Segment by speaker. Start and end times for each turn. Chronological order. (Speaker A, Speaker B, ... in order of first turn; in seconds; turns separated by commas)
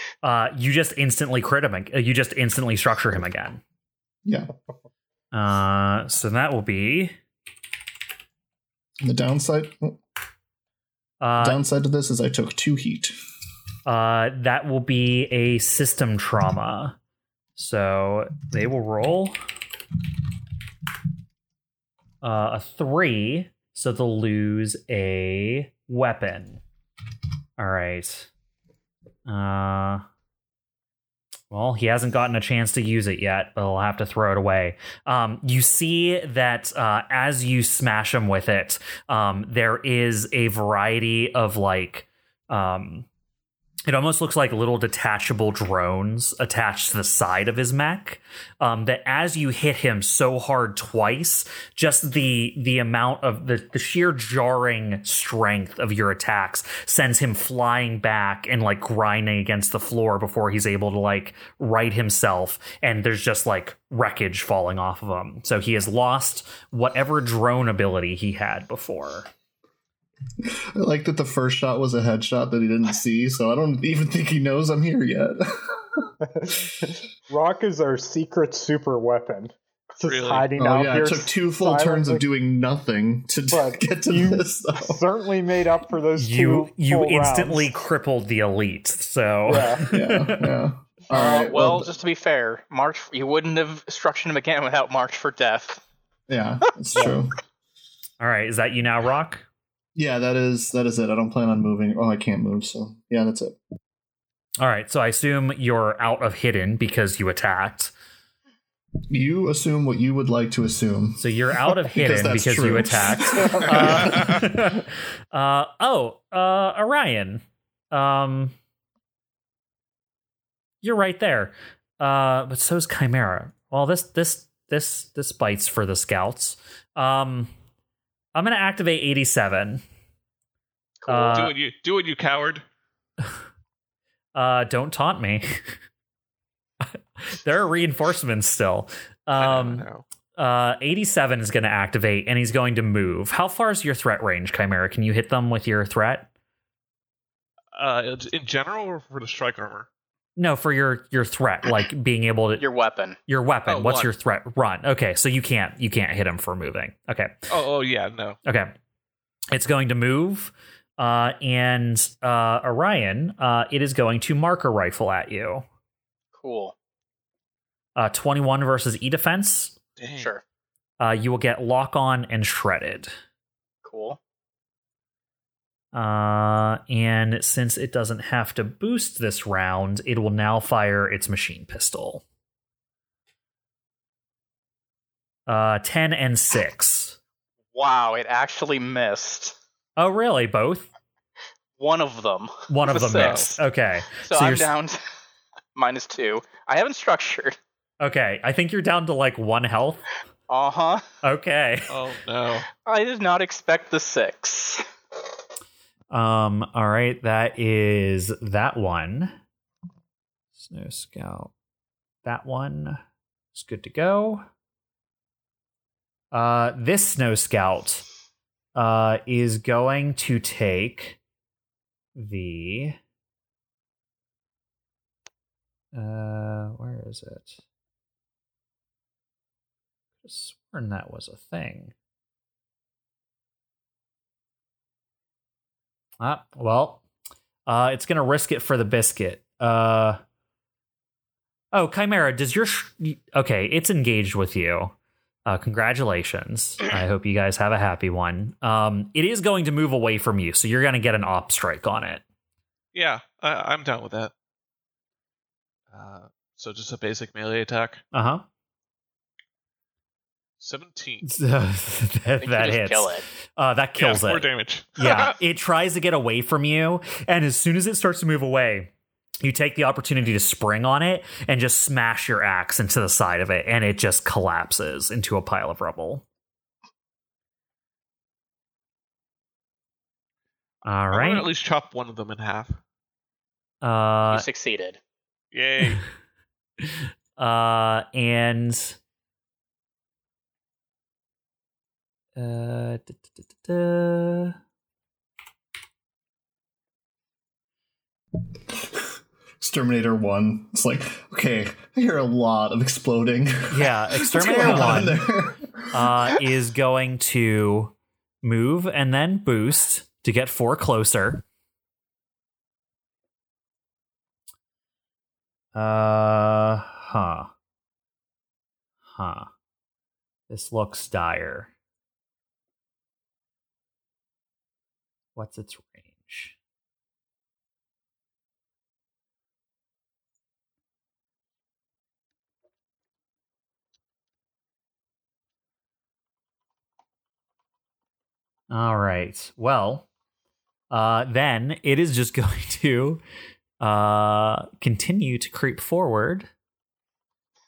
Speaker A: 0.2-3.6, Speaker B: 4.2-4.5, Speaker A: 5.3-7.1, Speaker B: 9.0-10.0, Speaker A: 11.2-11.6, Speaker B: 11.4-13.1, Speaker A: 13.8-17.0, Speaker A: 17.6-19.4, Speaker A: 22.2-26.6, Speaker A: 27.6-28.3, Speaker A: 29.2-30.0, Speaker A: 31.5-43.1, Speaker A: 43.9-69.3, Speaker B: 70.4-76.1, Speaker C: 76.2-82.2, Speaker D: 80.0-80.5, Speaker B: 80.5-85.0, Speaker C: 83.5-87.8, Speaker A: 86.2-90.5, Speaker C: 89.4-89.8, Speaker B: 89.9-91.9, Speaker C: 91.1-91.5, Speaker E: 91.1-95.8, Speaker B: 96.3-97.3, Speaker A: 98.2-99.5, Speaker B: 99.9-103.6, Speaker A: 104.6-107.9, Speaker B: 109.1-114.8, Speaker A: 111.2-118.5, Speaker A: 120.8-127.5, Speaker A: 128.3-129.8, Speaker E: 131.0-131.5, Speaker A: 131.1-131.5, Speaker D: 131.3-132.6, Speaker A: 134.3-135.6, Speaker A: 136.8-146.3, Speaker D: 139.4-140.0, Speaker D: 147.7-149.9, Speaker A: 150.4-152.6, Speaker E: 152.6-153.2, Speaker A: 153.3-157.3, Speaker D: 153.7-154.1, Speaker D: 157.5-158.4, Speaker A: 158.4-158.7, Speaker A: 159.5-165.6, Speaker E: 166.3-166.7, Speaker A: 167.9-169.8, Speaker D: 170.0-170.3, Speaker E: 170.2-170.4, Speaker A: 171.0-173.1, Speaker E: 173.8-174.2, Speaker A: 175.9-182.2, Speaker A: 185.5-187.2, Speaker E: 187.7-189.6, Speaker A: 190.0-190.9, Speaker E: 191.8-193.5, Speaker A: 192.7-194.7, Speaker D: 193.1-193.5, Speaker E: 194.2-195.0, Speaker E: 195.7-197.5, Speaker A: 198.0-200.1, Speaker E: 200.5-201.0, Speaker A: 201.2-202.0, Speaker D: 201.9-202.7, Speaker E: 202.8-204.8, Speaker A: 206.1-209.4, Speaker A: 210.6-211.5, Speaker A: 212.2-213.0, Speaker A: 213.5-214.4, Speaker A: 216.3-218.0, Speaker A: 218.7-221.2, Speaker A: 222.2-223.0, Speaker A: 225.9-227.6, Speaker A: 230.2-231.9, Speaker A: 236.2-237.0, Speaker A: 237.7-240.2, Speaker A: 241.7-244.9, Speaker A: 245.4-252.2, Speaker D: 252.9-254.3, Speaker D: 255.9-258.0, Speaker A: 258.1-258.4, Speaker D: 260.6-261.3, Speaker A: 261.2-276.2, Speaker E: 262.4-263.2, Speaker D: 264.0-265.4, Speaker A: 280.8-281.5, Speaker D: 281.1-282.8, Speaker A: 283.8-284.4, Speaker E: 284.3-285.0, Speaker D: 285.5-286.0, Speaker A: 286.8-289.0, Speaker A: 292.4-294.6, Speaker B: 298.5-306.3, Speaker A: 303.7-305.2, Speaker A: 305.9-311.4, Speaker A: 315.7-317.5, Speaker A: 319.1-319.5, Speaker A: 320.5-321.7, Speaker A: 325.3-326.6, Speaker A: 338.7-340.1, Speaker A: 340.9-343.2, Speaker A: 343.8-346.5